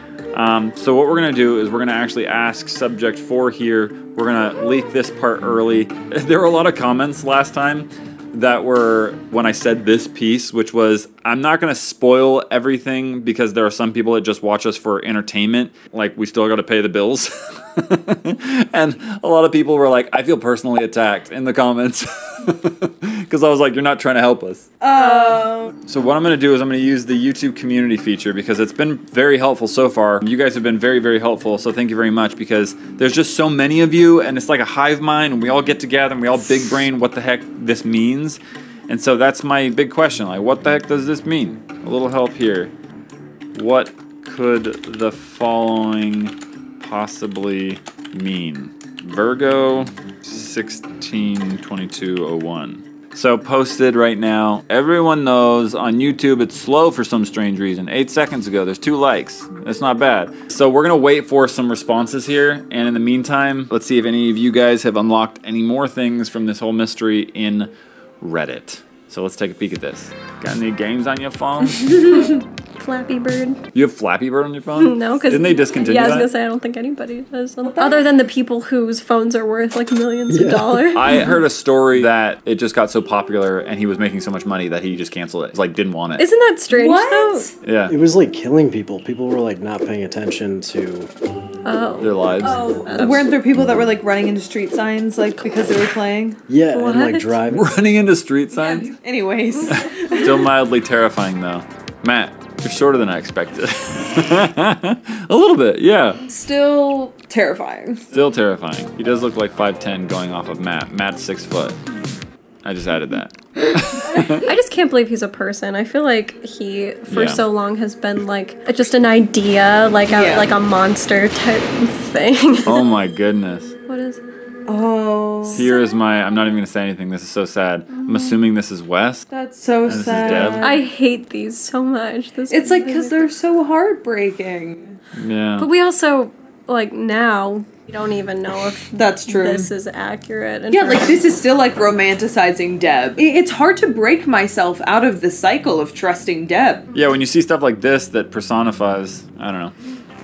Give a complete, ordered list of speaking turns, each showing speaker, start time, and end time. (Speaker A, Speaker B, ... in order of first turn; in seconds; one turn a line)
Speaker A: 0.3-24.7
Speaker B: 24.8-25.7
Speaker C: 24.9-25.5
Speaker A: 25.9-42.7
Speaker A: 43.5-72.1
Speaker C: 72.0-73.6
Speaker A: 73.7-76.3
Speaker C: 74.8-81.3
Speaker B: 77.6-78.1
Speaker D: 80.3-81.0
Speaker A: 80.9-86.2
Speaker C: 86.2-87.5
Speaker B: 86.7-87.5
Speaker A: 87.6-88.0
Speaker D: 87.9-91.1
Speaker C: 91.6-93.2
Speaker A: 92.0-93.2
Speaker B: 92.4-96.4
Speaker D: 96.5-97.7
Speaker C: 96.7-97.4
Speaker A: 97.5-98.9
Speaker B: 98.5-100.3
Speaker A: 99.7-106.2
Speaker B: 106.3-108.0
Speaker A: 108.1-111.8
Speaker A: 112.6-114.4
Speaker C: 114.4-122.9
Speaker A: 117.1-117.4
Speaker B: 120.0-120.5
Speaker A: 122.6-123.8
Speaker C: 123.9-124.2
Speaker B: 124.7-125.7
Speaker A: 125.5-129.2
Speaker C: 125.5-125.9
Speaker B: 129.3-130.8
Speaker A: 129.8-130.7
Speaker C: 130.6-133.2
Speaker B: 132.5-135.0
Speaker A: 135.1-135.7
Speaker C: 135.6-141.2
Speaker B: 138.9-139.7
Speaker B: 140.7-146.8
Speaker A: 146.9-149.7